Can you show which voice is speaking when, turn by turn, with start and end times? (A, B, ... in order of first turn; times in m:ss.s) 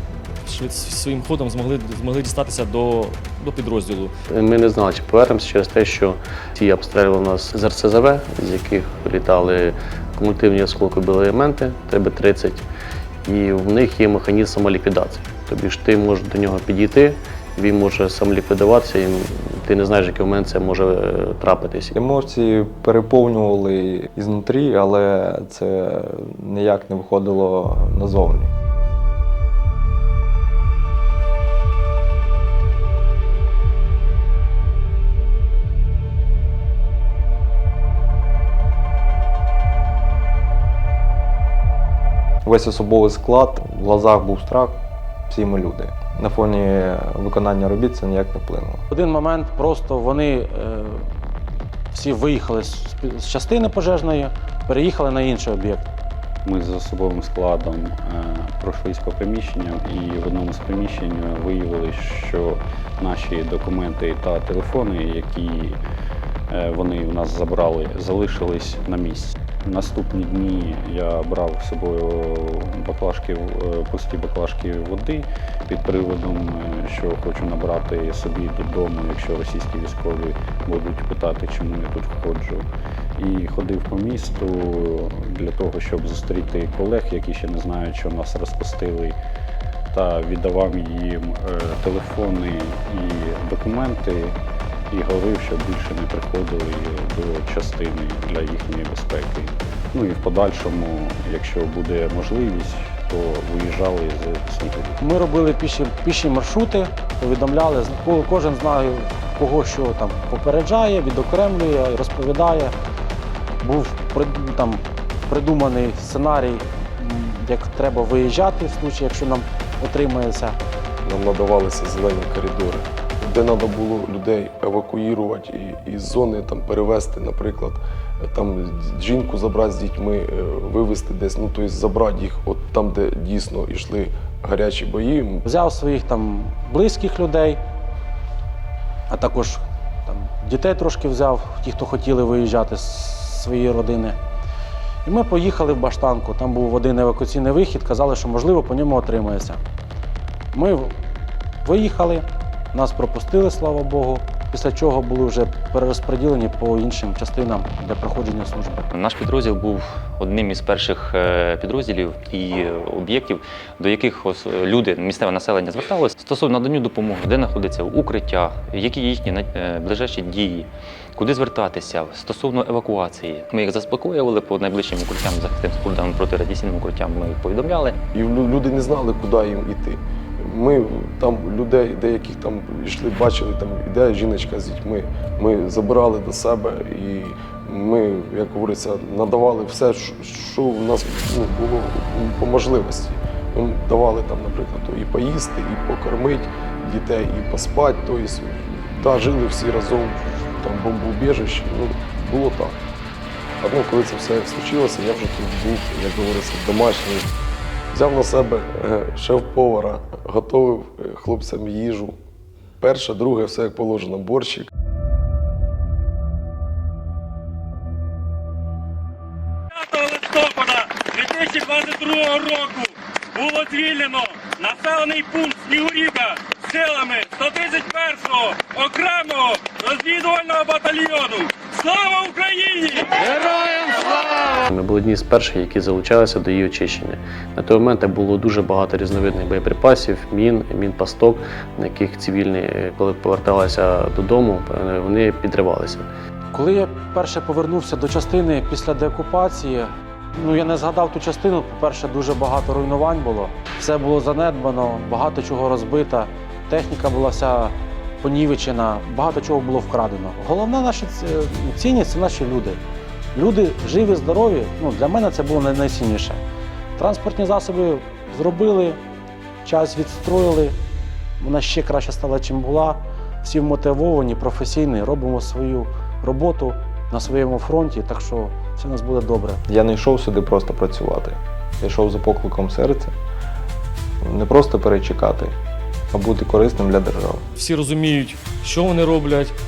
0:00.4-0:04.1 A
0:04.3-0:12.6 B
0:13.2-0:21.9 B
0:21.9-0:28.5 C
0:42.4-0:48.8 C
0:48.9-0:51.0 D
0:51.9-0:55.9 D
0:56.4-1:05.8 E
1:06.5-1:22.6 E
1:23.2-1:29.2 E
1:29.9-1:34.4 E
1:34.9-1:45.0 E
1:45.0-1:52.7 D
1:53.6-2:00.6 D
2:01.0-2:15.4 F
2:15.4-2:17.6 D
2:19.1-2:24.2 D
2:25.0-2:29.6 D
2:30.5-2:30.9 D
2:31.6-2:38.9 D
2:38.9-2:58.0 G
2:58.1-3:22.8 F
3:23.6-3:27.3 F
3:27.9-3:32.2 F
3:32.8-3:34.7 F
3:39.7-3:54.0 H
3:54.7-4:06.1 B
4:06.5-4:22.8 D
4:23.3-4:26.4 D
4:27.0-4:29.0 D
4:29.6-4:30.8 D
4:31.4-4:39.6 D
4:39.7-4:43.1 C
4:44.2-4:45.5 C
4:46.1-4:47.4 C
4:47.5-4:49.5 A